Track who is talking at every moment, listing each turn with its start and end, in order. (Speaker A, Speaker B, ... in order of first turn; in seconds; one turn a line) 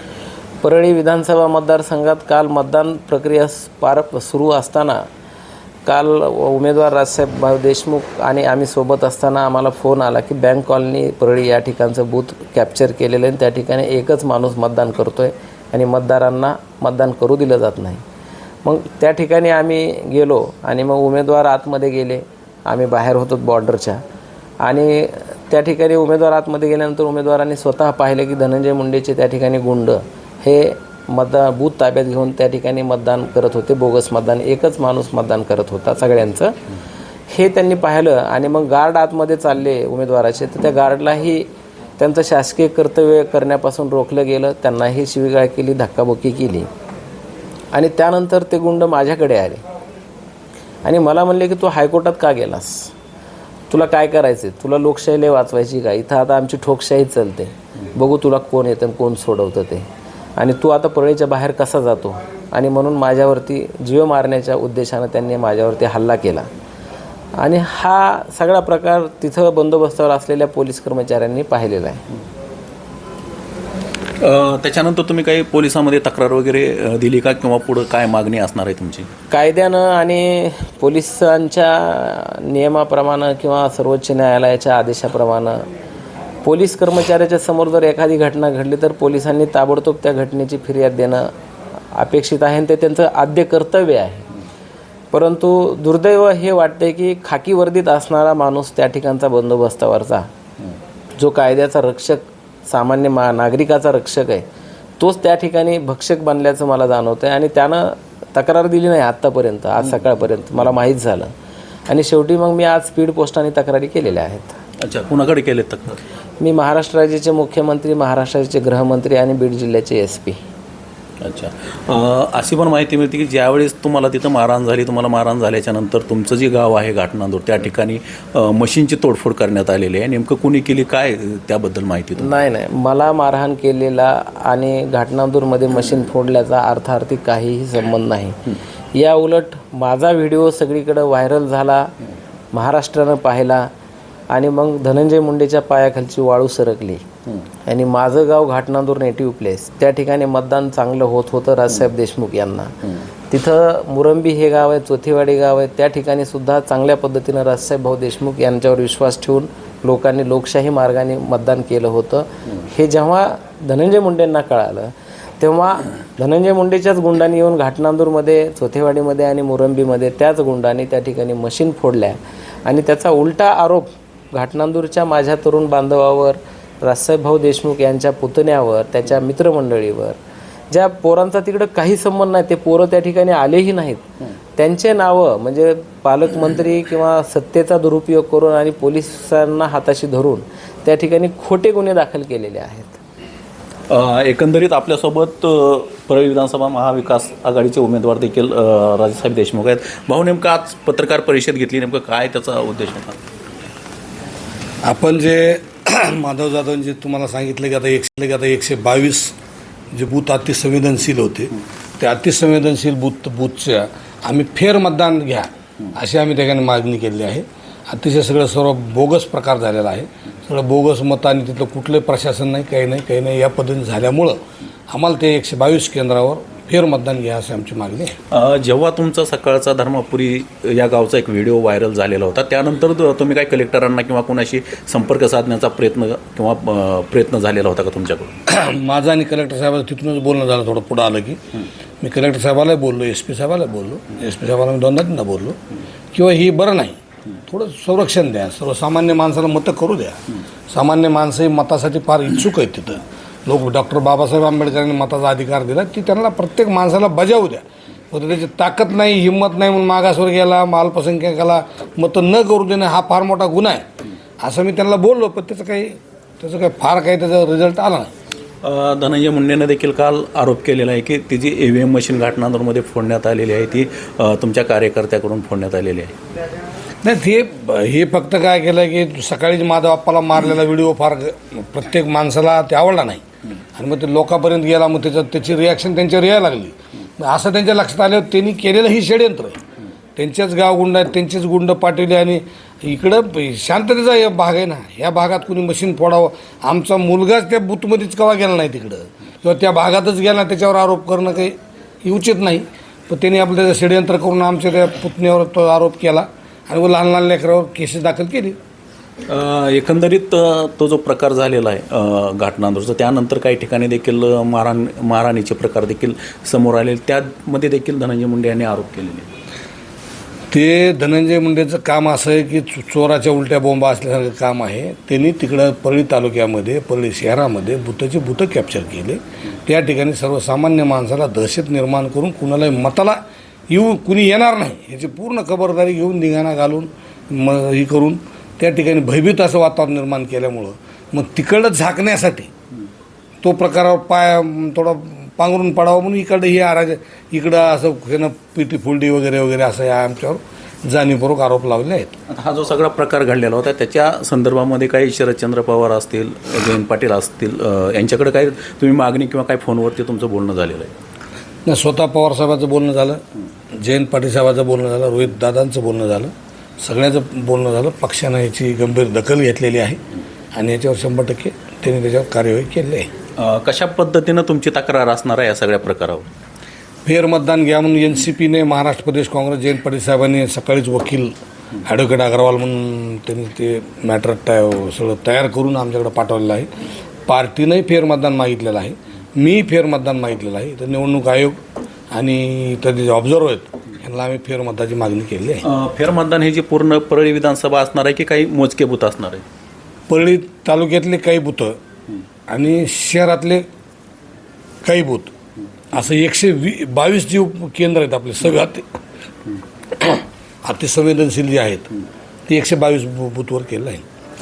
Speaker A: 0.6-5.0
Speaker A: 5.8-18.0
Speaker A: 18.6-24.0
Speaker A: 24.6-36.5
Speaker A: 37.3-41.5
Speaker A: 42.0-46.7
Speaker A: 47.7-49.6
Speaker A: 50.8-52.9
Speaker A: 53.7-59.9
Speaker A: 60.4-66.5
Speaker A: 67.4-72.0
Speaker B: 74.2-79.1
Speaker A: 79.3-85.6
Speaker A: 86.4-91.3
Speaker A: 91.9-94.3
Speaker A: 95.1-100.3
Speaker A: 101.2-104.4
Speaker A: 105.0-111.3
Speaker A: 111.9-114.5
Speaker B: 114.8-116.0
Speaker A: 116.4-120.4
Speaker B: 121.2-132.3
Speaker A: 132.2-141.9
Speaker A: 142.5-143.7
Speaker A: 144.3-147.0
Speaker A: 147.7-180.2
Speaker A: 180.7-184.0
Speaker A: 184.6-193.0
Speaker B: 193.9-203.2
Speaker C: 204.8-209.3
Speaker C: 209.9-228.2
Speaker B: 228.3-238.4
Speaker C: 238.5-241.4
Speaker C: 242.0-245.6
Speaker C: 246.1-250.2
Speaker C: 250.7-263.8
Speaker C: 264.4-268.1
Speaker B: 268.6-276.1
Speaker C: 277.0-283.2
Speaker C: 283.8-289.6
Speaker C: 290.1-308.6
Speaker B: 309.3-319.3
Speaker C: 320.5-342.5
Speaker C: 343.4-352.1
Speaker B: 352.3-360.9
Speaker C: 361.6-363.2
Speaker C: 363.8-370.0
Speaker C: 370.5-373.1
Speaker B: 373.4-376.3
Speaker C: 377.0-386.7
Speaker C: 387.3-391.6
Speaker C: 392.1-395.6
Speaker B: 395.6-399.4
Speaker C: 400.1-401.8
Speaker C: 402.5-403.6
Speaker C: 404.8-405.3
Speaker C: 405.9-408.9
Speaker C: 410.0-411.9
Speaker C: 412.5-414.0